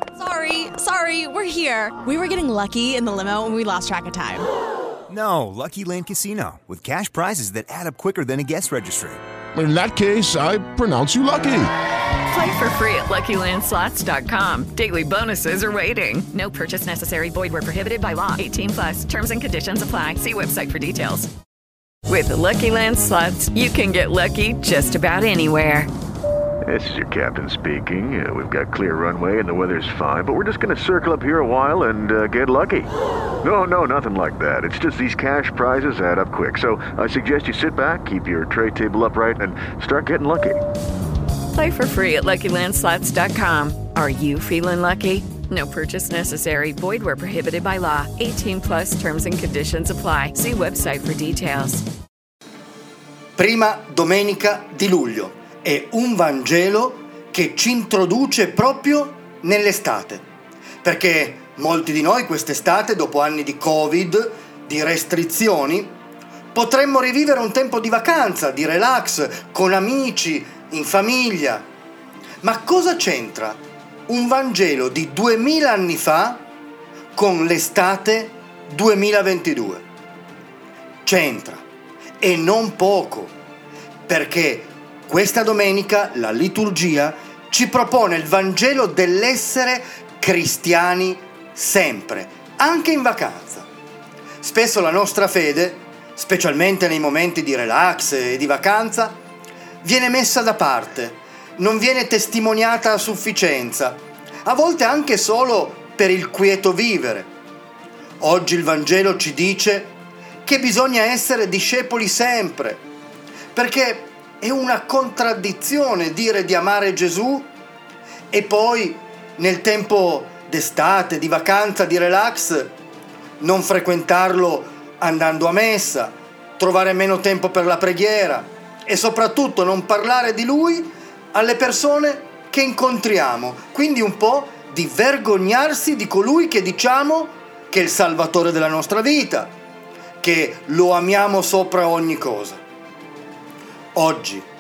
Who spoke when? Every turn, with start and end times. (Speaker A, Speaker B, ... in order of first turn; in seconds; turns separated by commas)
Speaker A: 0.2-4.5, Speaker B: 5.1-9.2, Speaker C: 9.5-11.7, Speaker D: 12.3-21.3, Speaker D: 22.1-25.9, Speaker E: 26.6-32.9, Speaker E: 33.4-40.6, Speaker D: 41.5-51.8, Speaker F: 53.4-60.2, Speaker F: 60.8-65.9, Speaker F: 66.5-71.7, Speaker F: 72.4-76.5, Speaker F: 77.1-79.8, Speaker F: 81.0-81.6, Speaker F: 82.2-83.3, Speaker F: 84.1-93.7, Speaker F: 94.4-99.2, Speaker F: 99.8-107.3, Speaker F: 108.2-112.8, Speaker F: 113.5-117.5, Speaker F: 118.3-122.7, Speaker F: 123.4-139.5, Speaker F: 140.2-142.6, Speaker F: 143.9-144.5